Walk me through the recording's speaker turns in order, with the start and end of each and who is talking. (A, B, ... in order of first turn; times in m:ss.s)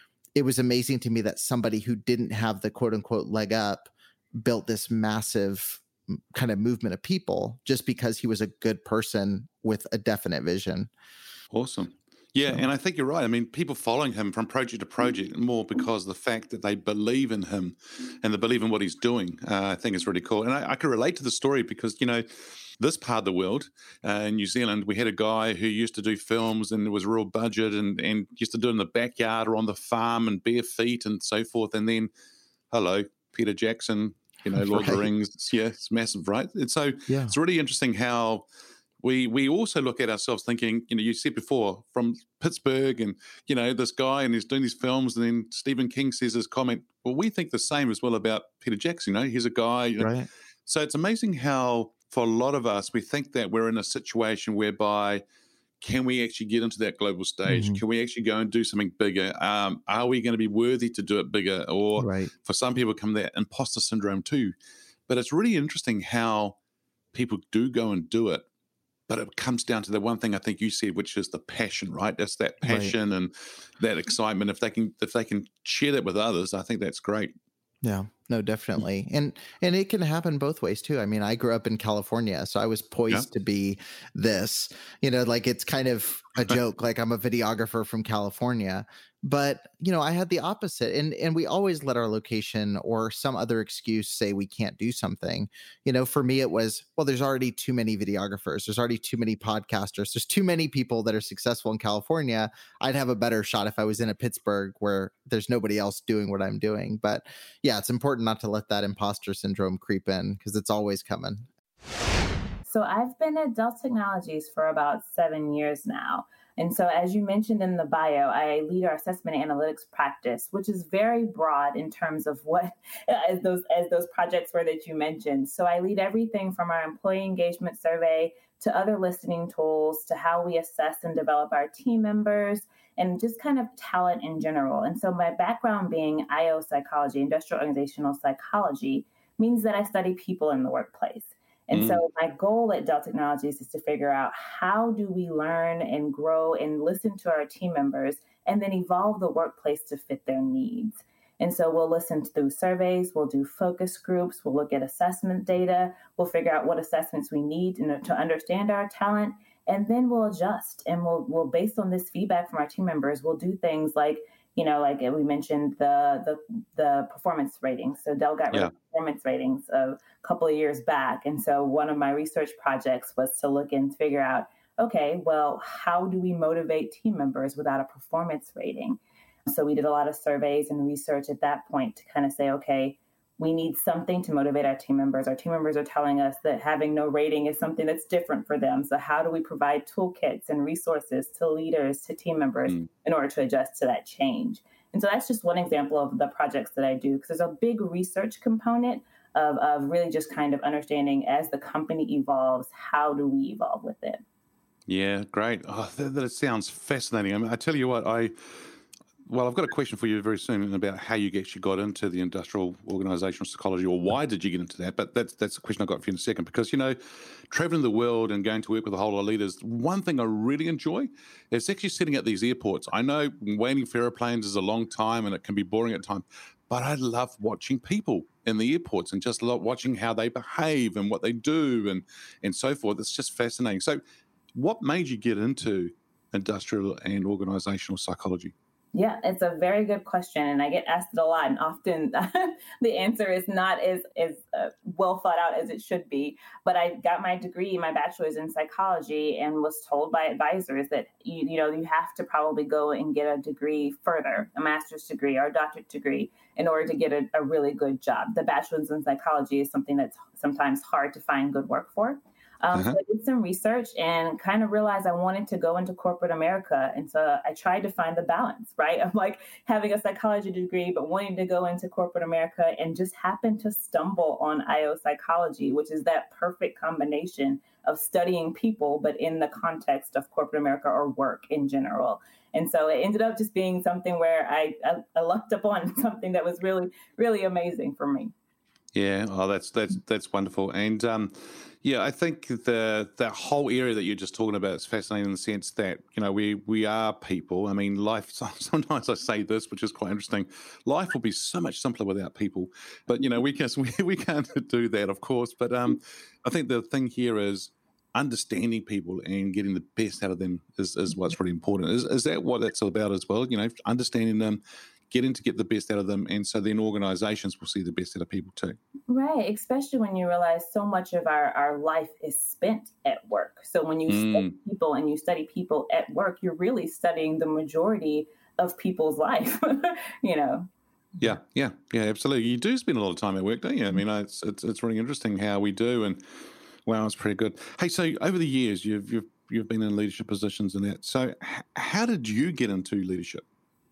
0:00.4-0:10.9 A
0:11.5-0:32.1 B
0:32.7-0:38.4 B
0:34.5-0:35.1 A
0:37.1-0:37.4 A
0:39.0-0:50.1 B
0:50.0-0:50.3 A
0:50.7-0:55.2 B
0:55.8-1:04.5 B
0:57.5-0:57.8 A
1:02.0-1:02.3 A
1:05.1-1:06.6 B
1:07.1-1:08.4 B
1:09.1-1:17.3 B
1:12.6-1:12.9 A
1:17.8-1:51.4 A
1:52.6-3:24.2 C
2:21.7-2:22.0 B
3:24.9-3:28.6 B
3:29.3-3:37.0 B
3:37.5-3:54.0 B
3:54.6-3:58.5 B
3:58.9-4:48.3 C
4:22.7-4:23.0 B
4:48.9-5:18.8 B
5:19.1-5:30.7 C
5:24.1-5:24.5 B
5:31.2-5:36.2 B
5:36.8-5:43.4 B